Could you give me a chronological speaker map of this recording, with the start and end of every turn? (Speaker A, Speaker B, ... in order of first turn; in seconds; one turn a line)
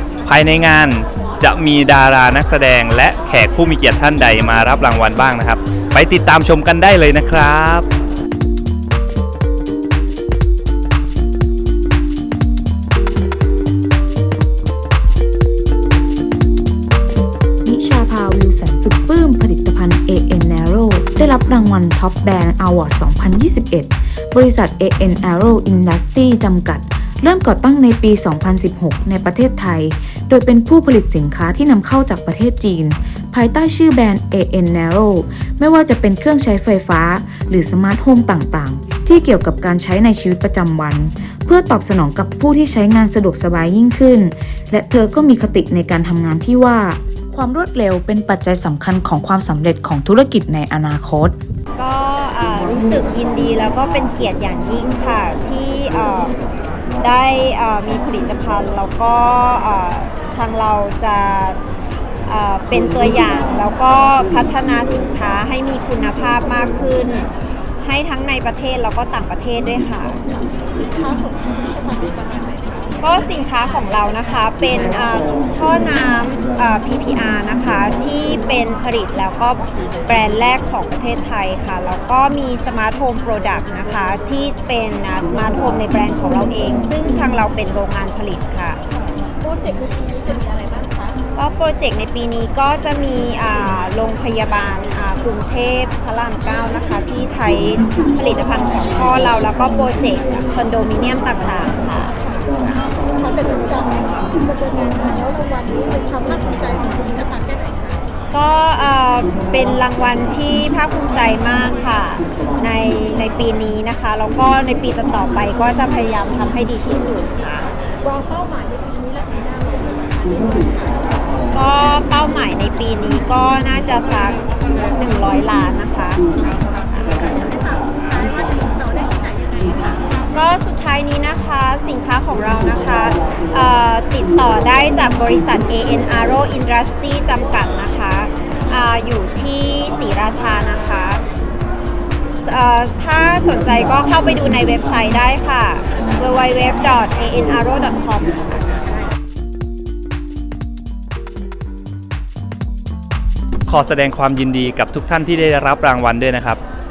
Speaker A: 0.2-7.8
Speaker B: 17.6-51.4
Speaker C: 51.8-56.3
Speaker C: 57.0-61.6
Speaker C: 62.2-67.3
Speaker C: 67.8-70.2
Speaker D: 70.7-73.0
Speaker C: 73.0-88.8
Speaker D: 89.4-91.2
Speaker C: 91.3-102.1
Speaker D: 102.2-108.1
Speaker C: 108.3-117.8
Speaker D: 118.0-121.3
Speaker C: 121.5-127.2
Speaker D: 127.2-130.3
Speaker C: 130.3-141.2
Speaker C: 142.4-148.4
Speaker A: 153.7-156.6